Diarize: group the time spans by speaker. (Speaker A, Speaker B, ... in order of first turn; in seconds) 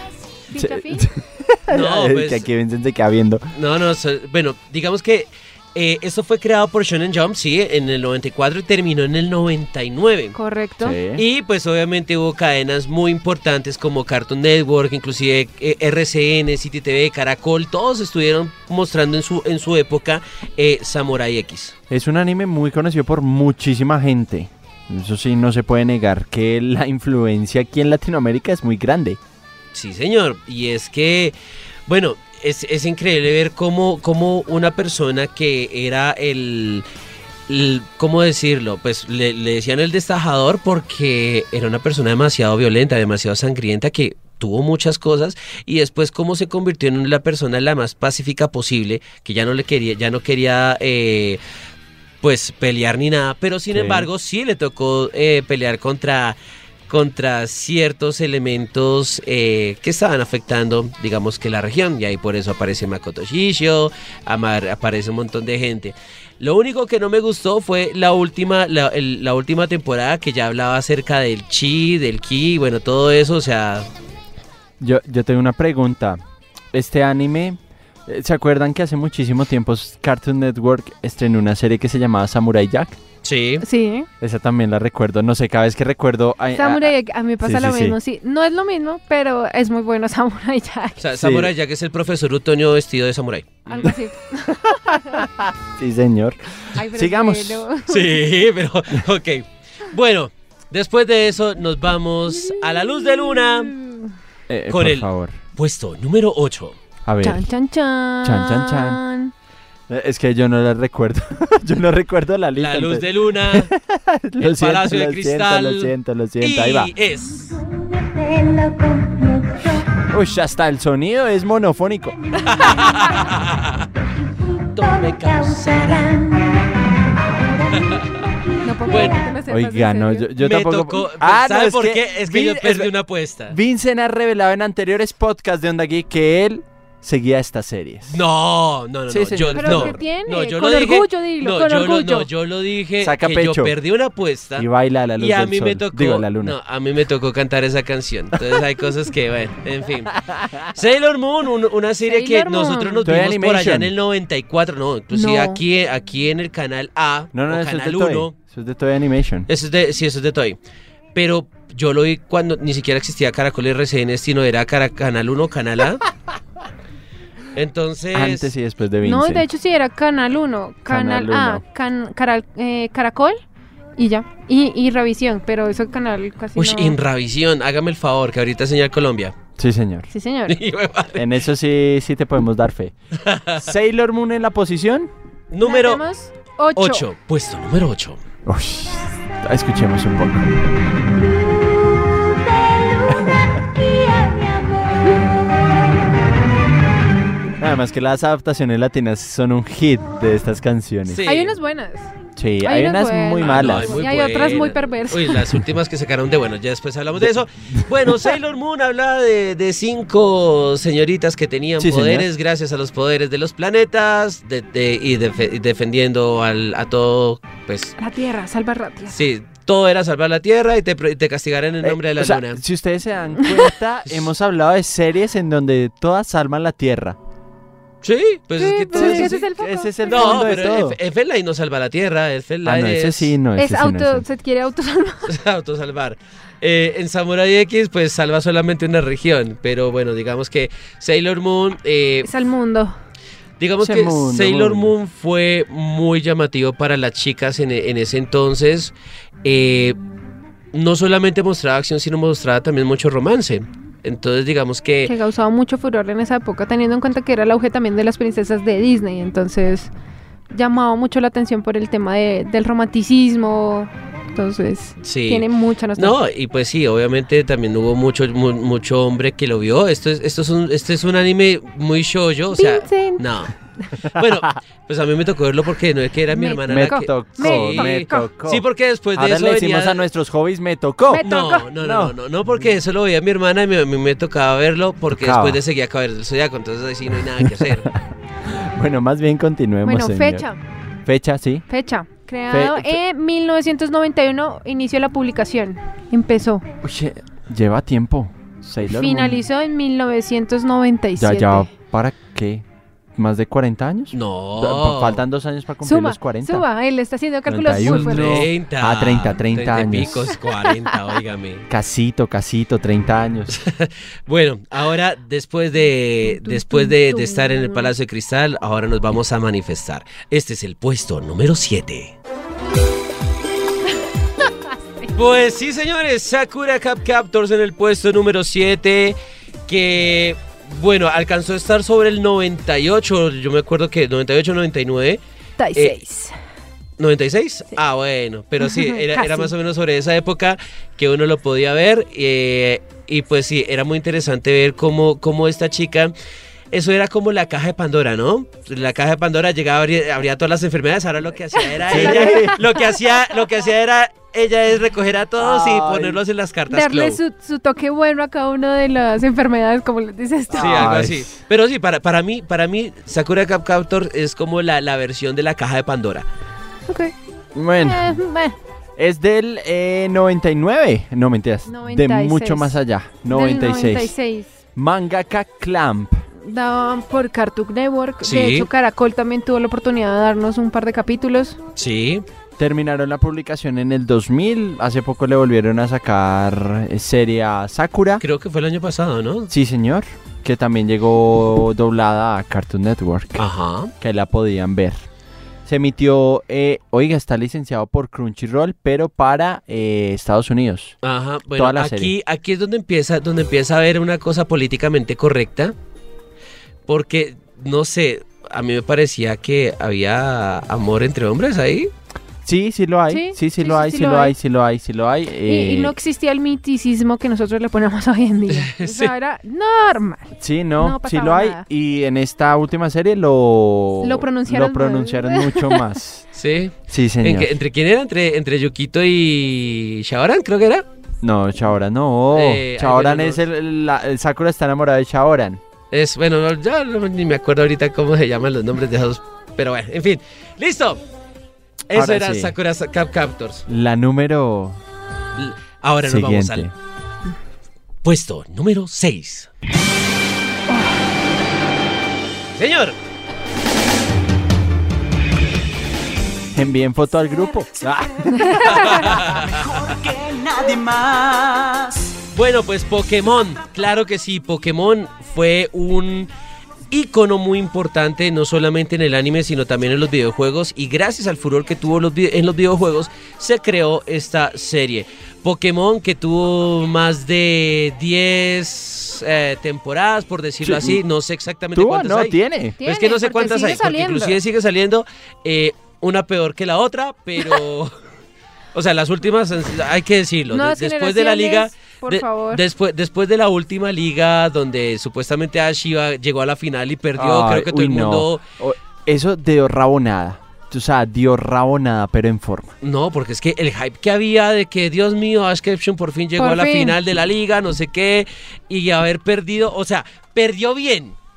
Speaker A: 0.5-1.1, 10.3-11.0, 83.6-84.1, 86.5-91.0, 93.7-95.3, 96.8-98.2, 102.3-104.1, 107.2-109.3, 128.6-130.3, 139.5-142.3, 152.1-153.1, 155.1-155.6, 169.0-173.4, 174.0-176.9, 180.1-180.6, 185.6-187.0, 201.2-202.1, 202.6-205.5, 218.0-219.2, 228.6-230.7, 233.6-235.3, 242.2-242.9, 255.1-259.9, 260.5-266.2, 272.5-273.3, 276.3-278.3, 281.1-281.7, 289.9-290.6, 291.7-296.6, 298.8-301.7, 305.8-308.4, 310.5-310.9, 316.2-317.9, 335.6-336.4, 338.6-339.5, 351.5-352.6, 356.7-360.9, 366.9-367.1, 367.8-368.6, 371.7-372.8, 373.3-374.5, 376.4-381.6, 413.1-414.4, 415.4-421.6, 424.0-425.8, 458.4-459.0, 482.8-484.4, 490.5-492.6, 506.4-507.0
Speaker B: 0.6-3.5, 10.8-11.2, 21.9-29.2, 53.7-54.1, 74.8-76.2, 76.7-83.0, 84.2-88.0, 91.2-91.5, 94.7-97.7, 104.5-105.4, 107.0-107.4, 108.2-109.0, 109.9-116.9, 120.0-122.2, 129.4-132.9, 133.5-138.2, 139.1-140.0, 143.0-143.8, 144.6-146.6, 150.3-150.6, 153.0-153.9, 157.3-159.5, 168.1-169.4, 170.9-171.6, 179.6-180.1, 181.1-182.9, 183.6-185.1, 188.4-190.6, 193.1-193.6, 197.6-201.2, 202.4-203.9, 207.2-208.1, 211.8-212.3, 221.8-227.2, 228.9-231.0, 232.6-234.2, 243.8-244.9, 276.7-278.6, 279.1-282.1, 285.1-285.6, 287.4-287.9, 288.5-290.4, 291.0-291.6, 292.5-293.0, 296.8-299.4, 301.2-306.6, 307.5-310.3, 311.7-313.6, 351.9-352.6, 355.4-356.2, 360.5-361.3, 367.5-368.2, 369.0-374.1, 374.8-376.2, 382.6-388.2, 389.5-393.5, 394.0-395.0, 395.6-400.9, 401.5-402.1, 412.4-415.9, 420.4-426.3, 426.9-427.5, 431.2-435.6, 441.9-442.5, 443.7-444.8, 446.0-446.7, 456.5-461.6, 480.6-481.0, 481.8-482.8, 497.1-502.7
Speaker C: 1.7-2.5, 3.5-10.4, 11.2-21.8, 29.7-31.3, 31.9-36.9, 37.5-51.4, 52.2-56.4, 56.9-73.9, 83.2-83.6, 91.0-93.9, 97.9-103.7, 104.7-106.8, 112.5-113.7, 114.4-117.6, 122.5-123.9, 124.5-126.5, 127.6-128.3, 128.9-129.2, 130.4-133.6, 138.1-158.3, 159.5-160.6, 161.1-166.1, 167.5-168.5, 176.6-179.4, 180.5-181.3, 183.2-183.6, 185.5-186.0, 186.8-188.2, 201.1-201.5, 203.4-217.9, 219.1-222.6, 228.0-229.4, 230.1-233.3, 235.3-242.3, 243.6-250.0, 250.7-255.1, 265.0-273.5, 274.1-280.0, 281.2-287.9, 304.1-305.2, 307.8-311.7, 313.5-322.1, 325.1-335.2, 337.0-346.1, 346.7-357.2, 360.5-366.3, 378.2-378.7, 381.8-382.2, 388.2-389.5, 393.4-393.9, 401.0-405.8, 406.9-411.9, 418.5-419.1, 426.4-430.9, 432.3-433.4, 435.9-441.0, 441.9-443.6, 445.4-446.7, 448.0-449.5, 452.5-452.9, 458.8-460.0, 462.3-466.3, 466.9-487.9, 488.7-498.4, 502.8-511.1